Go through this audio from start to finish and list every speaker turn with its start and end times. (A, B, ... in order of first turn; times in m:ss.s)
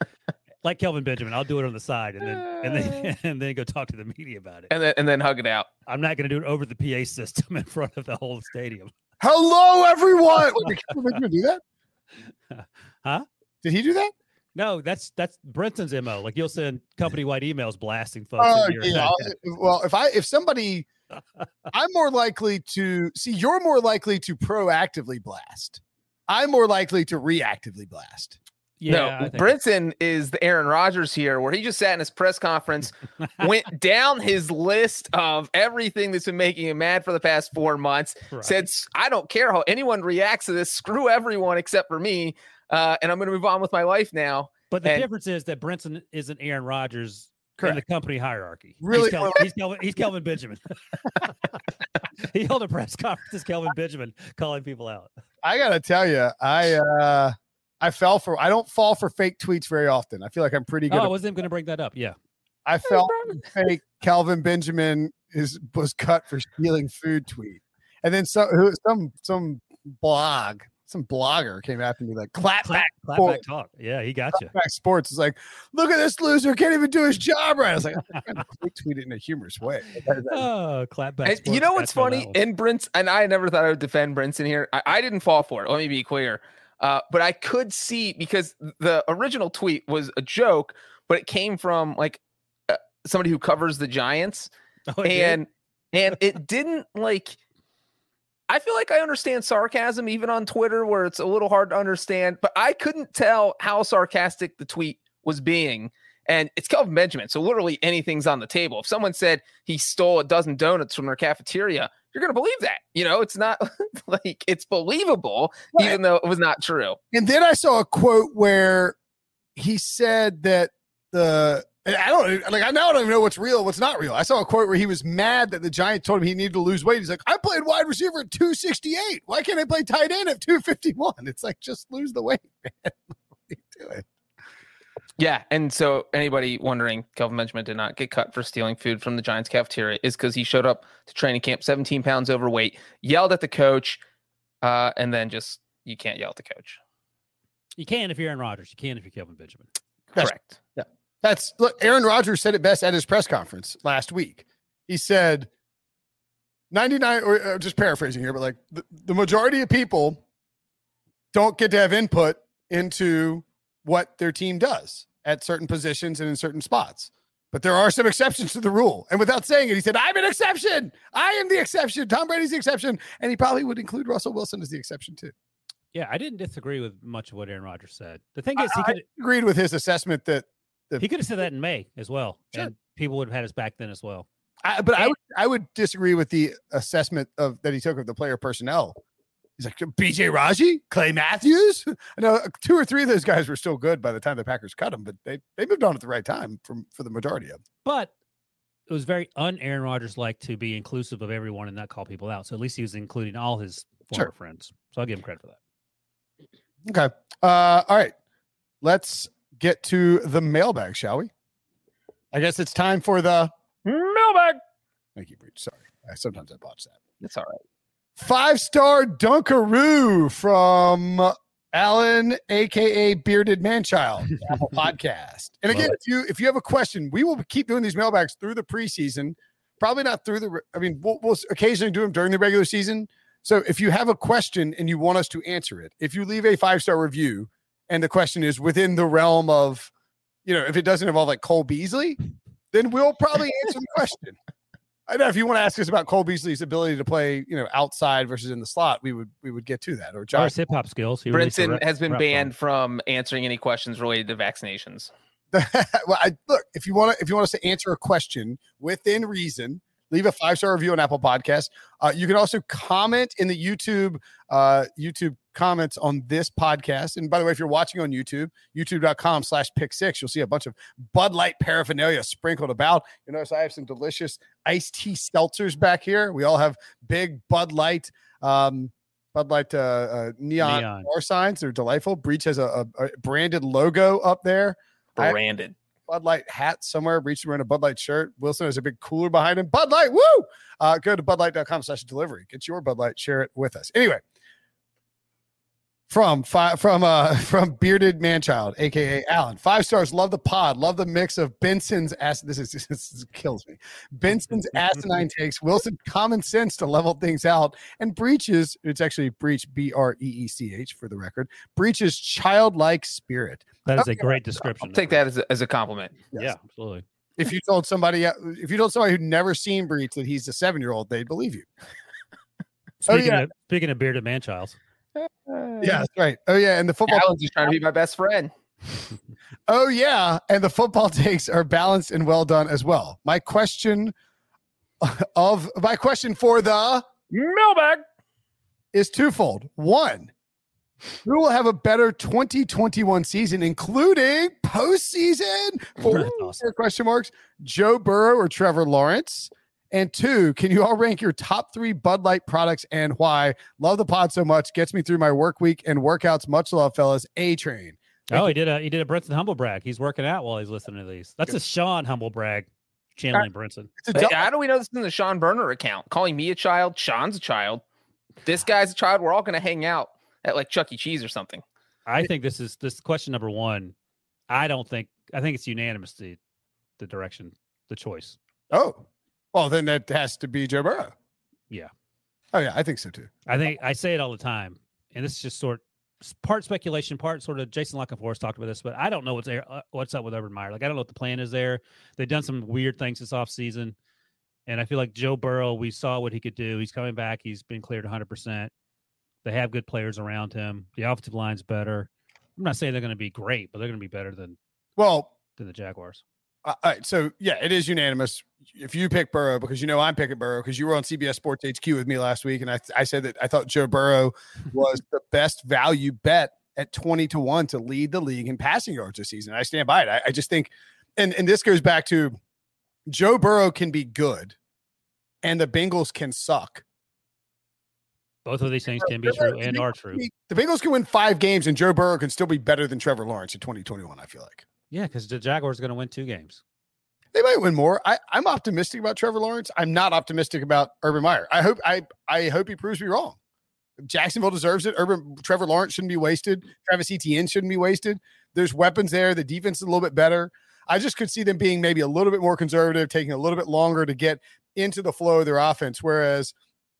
0:00.6-0:04.7 A
0:04.7-0:05.7 B
0:05.9-0:08.9 A
0:09.2-0:11.6 C
0:12.5-0:13.2 A
0:13.6-0:14.1 C
0:14.5-0:19.3 A
0:18.4-0:20.9 C
0:21.7-0:28.4 C
0:28.8-0:29.5 A
0:28.9-0:45.0 B
0:38.3-0:38.6 A
0:44.7-0:51.3 A
0:48.8-0:49.5 C
0:52.2-0:55.1 A
0:55.4-1:01.1 C
1:00.9-1:02.2 A
1:02.7-1:13.4 C
1:12.6-1:14.5 A
1:14.3-1:20.4 C
1:20.3-1:22.4 A
1:21.2-1:34.5 B
1:34.9-1:35.4 A
1:35.0-1:37.4 B
1:38.5-1:57.0 B
1:57.1-1:59.0 C
1:59.6-2:14.0 C
2:15.2-2:24.0 B
2:24.6-2:26.8 B
2:27.8-2:29.7 A
2:30.2-2:35.5 C
2:36.7-2:40.2 C
2:41.3-2:55.3 C
2:55.9-2:59.0 A
2:58.6-3:01.0 C
3:01.0-3:04.2 A
3:04.6-3:09.0 C
3:09.6-3:17.6 C
3:17.8-3:18.1 A
3:18.9-3:25.6 A
3:26.9-3:28.1 C
3:28.8-3:31.3 C
3:32.3-3:33.5 C
3:33.8-3:34.6 B
3:35.2-3:37.0 C
3:37.2-3:37.6 B
3:38.2-3:59.9 C
4:00.4-4:02.2 C
4:02.7-4:04.4 C
4:05.1-4:10.5 C
4:10.3-4:12.5 A
4:11.3-4:15.1 B
4:15.5-4:45.4 C
4:40.6-4:41.1 A
4:45.2-4:45.8 B
4:46.1-4:54.2 C
4:56.1-5:14.4 C
5:13.9-5:15.2 A
5:14.9-5:16.1 B
5:16.4-5:17.0 A
5:17.4-5:21.7 C
5:23.0-5:24.8 A
5:23.1-5:23.4 C
5:25.2-5:26.0 B
5:25.8-5:27.3 C
5:27.1-5:28.5 B
5:29.7-5:34.1 C
5:35.0-5:37.1 C
5:37.3-5:38.0 B
5:38.9-5:40.3 C
5:41.2-5:58.5 C
5:46.0-5:46.6 A
5:58.3-6:03.9 A
6:04.0-6:04.4 C
6:04.1-6:07.8 B
6:08.4-6:11.6 B
6:12.0-6:13.9 A
6:14.5-6:16.4 A
6:17.0-6:18.4 A
6:18.7-6:21.1 C
6:22.5-6:23.3 C
6:23.5-6:34.0 A
6:34.7-6:38.7 A
6:39.4-6:44.6 A
6:45.0-6:45.3 C
6:45.6-6:46.2 A
6:46.6-7:02.3 C
7:03.1-7:04.6 C
7:05.4-7:06.8 C
7:08.4-7:10.2 A
7:09.0-7:14.6 C
7:14.9-7:16.6 A
7:17.3-7:23.4 C
7:24.0-7:36.5 C